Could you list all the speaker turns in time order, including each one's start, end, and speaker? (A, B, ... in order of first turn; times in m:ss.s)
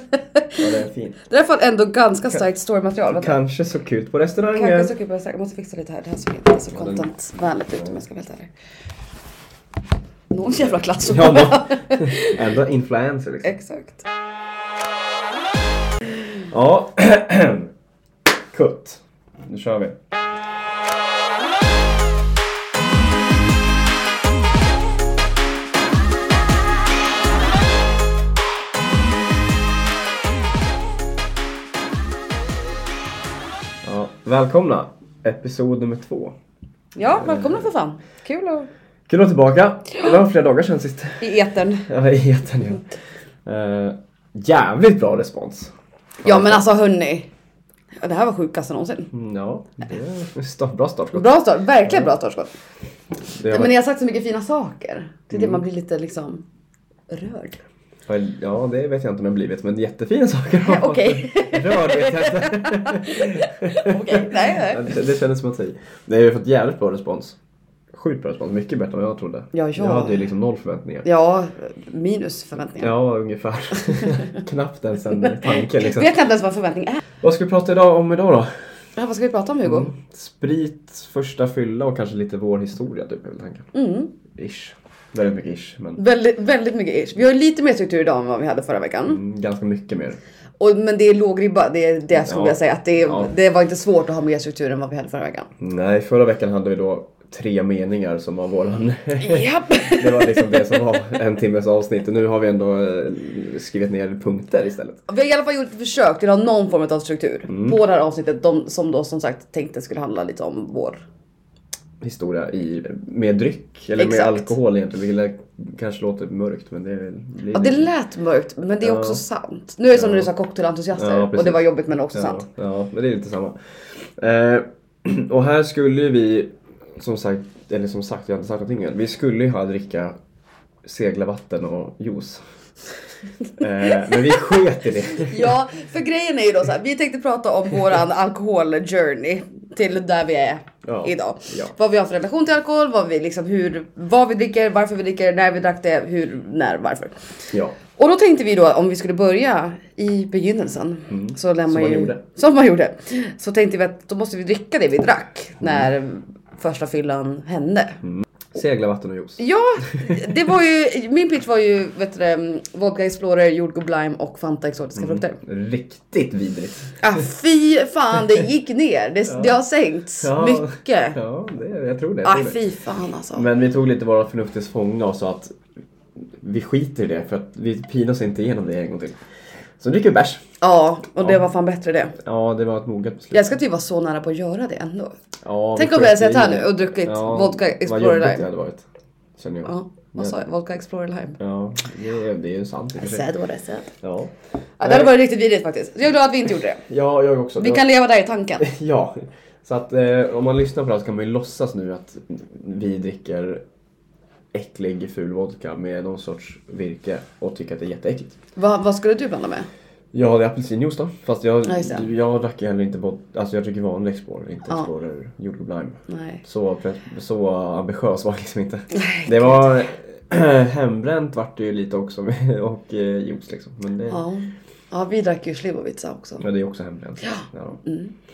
0:00.6-0:01.2 A
0:01.3-0:03.4 B
0:03.1-0:04.9 A
0:04.6-0:08.5 B
0:06.7-0:07.1 A
0:07.7-0:08.0 A
0:10.3-0:12.4 B
0:10.5-0:13.5 A
0:13.4-0:14.0 B
0:16.5-0:17.7 A
0:18.5-0:20.0 A
0:33.8-0:36.4 A
0:37.0-0:38.7 B
0:37.1-0:37.7 A
0:39.1-0:41.2 A
0:41.2-0:41.9 B
0:41.9-0:42.9 A
0:43.4-0:45.7 A
0:46.2-0:46.6 A
0:46.2-0:47.3 B
0:48.0-0:49.1 B
0:49.1-0:51.3 A
0:51.1-0:52.5 B
0:51.8-0:52.1 A
0:53.4-0:53.7 A
0:53.5-0:56.4 B
0:55.3-0:55.6 A
0:57.1-0:57.6 B
0:58.1-1:07.4 A
1:00.6-1:04.9 B
1:07.9-1:11.1 A
1:09.5-1:10.2 B
1:11.0-1:12.9 B
1:12.8-1:16.1 A
1:15.4-1:17.0 B
1:17.2-1:18.5 A
1:19.0-1:19.9 B
1:19.6-1:23.7 A
1:23.7-1:24.1 B
1:24.3-1:26.0 A
1:26.0-1:29.2 B
1:29.1-1:30.2 A
1:30.6-1:35.5 B
1:32.2-1:33.3 A
1:35.6-1:45.0 A
1:39.2-1:41.0 B
1:45.1-1:51.0 B
1:47.5-1:47.8 A
1:52.0-1:57.9 A
1:54.0-1:54.5 B
1:57.5-2:02.5 B
1:58.8-1:59.2 A
1:59.9-2:00.3 A
2:01.0-2:10.2 A
2:10.8-2:12.4 A
2:13.6-2:15.5 A
2:15.2-2:27.2 B
2:20.8-2:21.7 A
2:27.5-2:27.8 A
2:27.9-2:38.0 B
2:31.1-2:32.2 A
2:35.6-2:35.9 A
2:38.0-2:40.3 A
2:39.4-2:45.4 B
2:44.9-2:47.0 A
2:47.0-2:51.2 B
2:49.3-2:49.6 A
2:50.2-2:52.6 A
2:52.2-2:53.5 B
2:53.3-2:55.5 A
2:56.4-2:59.2 A
2:59.8-3:00.4 A
3:00.6-3:02.2 B
3:02.2-3:03.5 A
3:03.3-3:05.2 B
3:05.4-3:08.8 A
3:05.8-3:08.5 B
3:09.4-3:10.4 A
3:09.6-3:11.4 B
3:11.4-3:13.2 A
3:13.0-3:13.9 B
3:14.0-3:15.2 A
3:14.8-3:16.8 B
3:16.8-3:17.9 A
3:17.6-3:18.7 B
3:18.6-3:23.6 A
3:24.5-3:28.3 A
3:28.6-3:29.7 B
3:30.1-3:44.2 A
3:31.7-3:32.1 B
3:36.1-3:36.4 B
3:38.9-3:39.8 B
3:44.1-3:46.4 B
3:46.4-3:47.8 A
3:47.2-3:48.1 B